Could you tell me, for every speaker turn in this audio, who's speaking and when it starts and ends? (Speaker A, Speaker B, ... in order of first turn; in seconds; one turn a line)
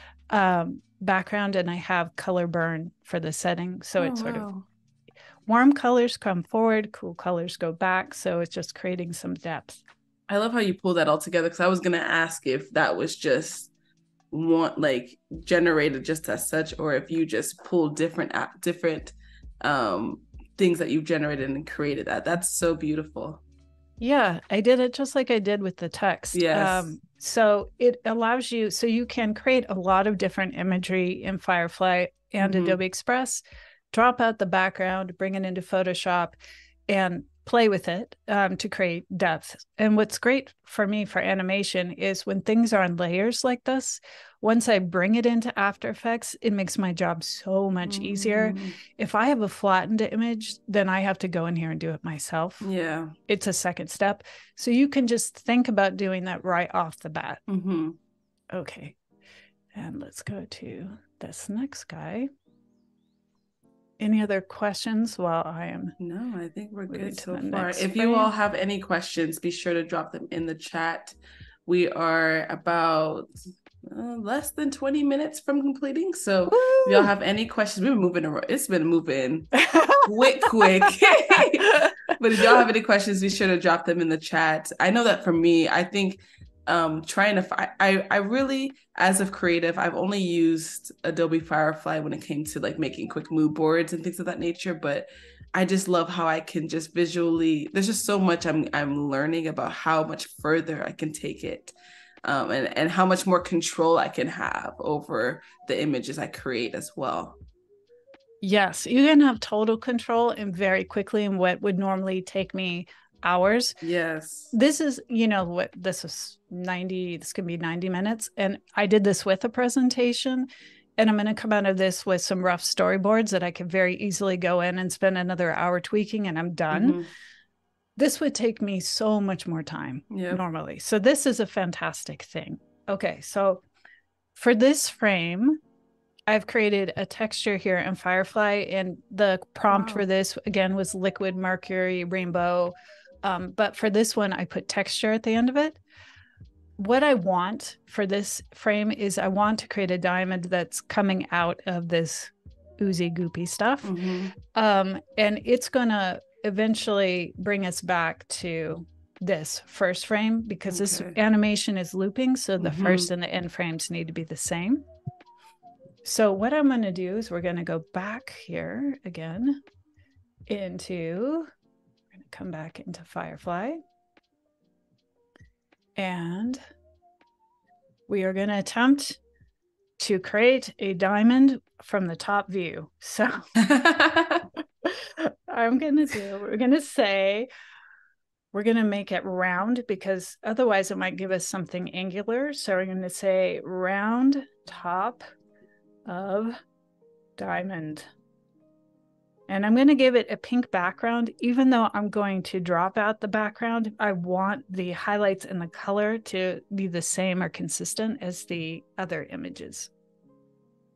Speaker A: 0.3-4.5
Speaker B: 4.0-4.7
Speaker A: 5.5-9.8
Speaker B: 10.3-13.7
Speaker B: 14.3-23.4
Speaker A: 24.0-36.4
Speaker B: 26.3-26.9
Speaker B: 32.4-32.8
Speaker A: 36.9-52.7
Speaker B: 47.9-48.8
Speaker B: 52.6-53.1
Speaker A: 53.3-57.4
Speaker B: 57.5-58.0
Speaker A: 58.5-59.0
Speaker A: 59.7-62.3
Speaker A: 64.0-66.0
Speaker B: 66.0-73.3
Speaker A: 66.9-68.3
Speaker B: 73.8-107.4
Speaker A: 76.5-77.1
Speaker A: 79.6-82.6
Speaker A: 108.4-113.8
Speaker B: 113.8-114.5
Speaker A: 114.5-127.0
Speaker B: 126.7-127.1
Speaker A: 128.0-133.6
Speaker B: 130.1-130.4
Speaker A: 134.3-135.6
Speaker A: 136.3-145.8
Speaker B: 139.7-140.0
Speaker A: 146.8-153.9
Speaker B: 153.8-154.3
Speaker A: 154.5-164.8
Speaker B: 160.7-161.2
Speaker B: 162.6-163.1
Speaker A: 166.0-169.6
Speaker A: 170.5-171.5
Speaker A: 172.1-173.8
Speaker A: 175.9-176.6
Speaker A: 178.1-179.2
Speaker A: 180.0-183.4
Speaker B: 183.6-184.4
Speaker A: 184.8-187.5
Speaker A: 188.5-195.2
Speaker A: 196.1-196.6
Speaker A: 197.4-198.1
Speaker A: 199.5-209.9